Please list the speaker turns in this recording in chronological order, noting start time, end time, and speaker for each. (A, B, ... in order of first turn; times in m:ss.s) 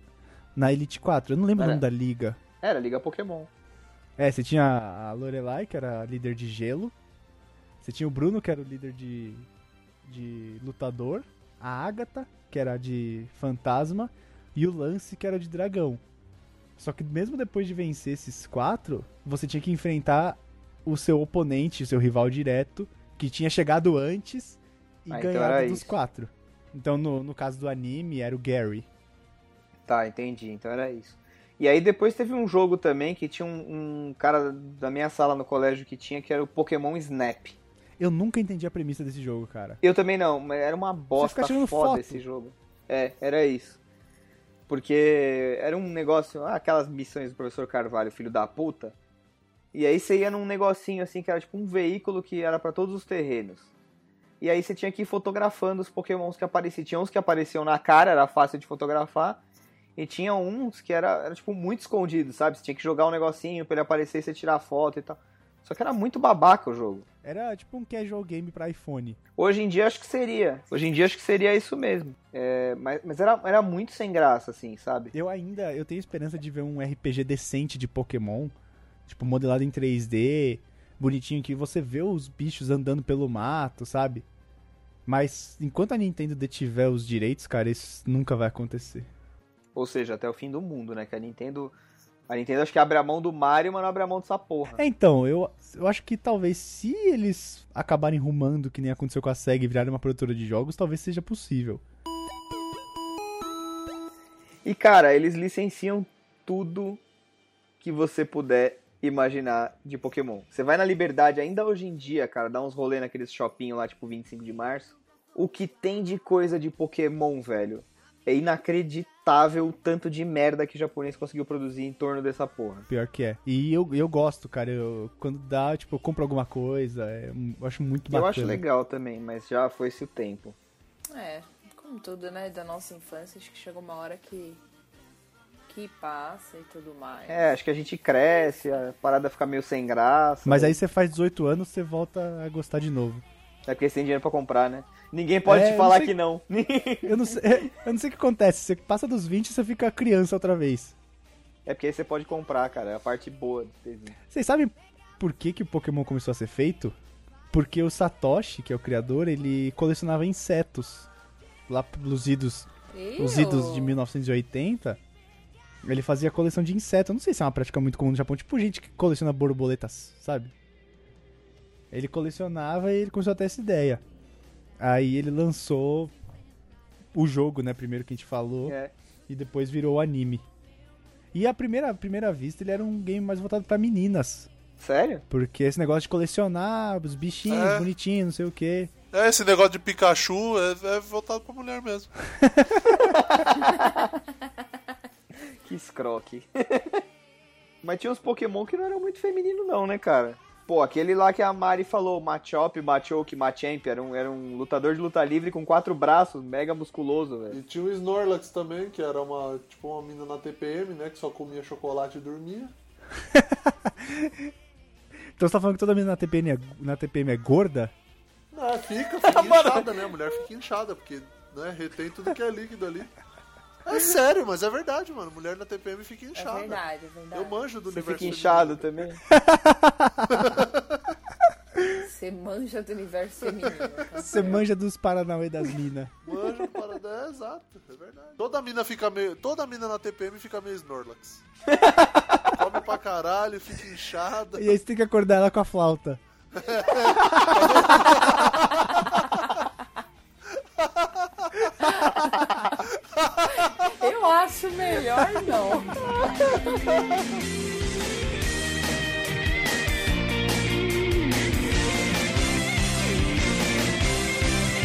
0:00.6-0:02.4 A
0:01.6-0:01.8 B
0:02.6-0:03.5 B
0:04.2-0:06.9 A
0:07.8-0:09.5 A
0:10.0-0:16.0 A
0:16.8-0:28.9 A
0:25.1-0:25.9 B
0:29.9-0:37.6 B
0:38.0-0:39.8 A
0:39.8-0:43.8 B
0:41.2-0:42.2 A
0:44.7-0:49.0 B
0:49.7-0:53.7 B
0:54.4-0:59.4 B
1:00.0-1:07.0 B
1:07.2-1:09.2 A
1:09.4-1:15.1 B
1:15.1-1:18.5 A
1:19.0-1:24.2 A
1:25.0-1:29.1 A
1:29.7-1:31.7 B
1:32.3-1:34.8 B
1:34.7-1:41.8 A
1:44.6-1:47.0 B
1:47.8-2:02.9 B
2:02.9-2:08.6 A
2:08.1-2:10.6 B
2:11.1-2:14.6 C
2:15.7-2:17.5 C
2:17.3-2:20.8 B
2:20.4-2:23.2 A
2:23.7-2:27.7 B
2:25.4-2:26.1 A
2:27.0-2:31.0 A
2:31.7-2:34.2 B
2:34.3-2:37.0 A
2:37.5-2:41.1 A
2:41.7-2:45.0 A
2:42.9-2:44.0 C
2:45.8-2:50.5 A
2:51.9-2:54.0 A
2:54.8-2:56.1 A
2:57.1-2:58.8 A
2:58.6-2:58.9 B
2:59.3-3:00.4 A
3:01.3-3:04.5 A
3:04.8-3:05.2 B
3:05.3-3:08.9 A
3:07.5-3:07.9 D
3:09.1-3:12.1 D
3:12.4-3:13.1 A
3:12.9-3:14.1 B
3:15.6-3:17.0 B
3:17.8-3:27.6 B
3:27.5-3:32.7 D
3:33.2-3:34.5 A
3:35.4-3:37.9 A
3:38.5-3:43.1 D
3:43.8-3:46.8 D
3:46.3-3:47.7 C
3:47.3-3:48.9 D
3:47.9-3:49.2 B
3:49.3-3:50.5 A
3:50.4-3:50.8 D
3:51.9-3:54.6 C
3:54.2-3:56.1 A
3:56.2-4:01.4 D
4:02.5-4:04.7 D
4:04.6-4:06.2 A
4:06.6-4:08.6 D
4:10.8-4:11.6 D
4:11.8-4:12.8 C
4:13.5-4:17.0 C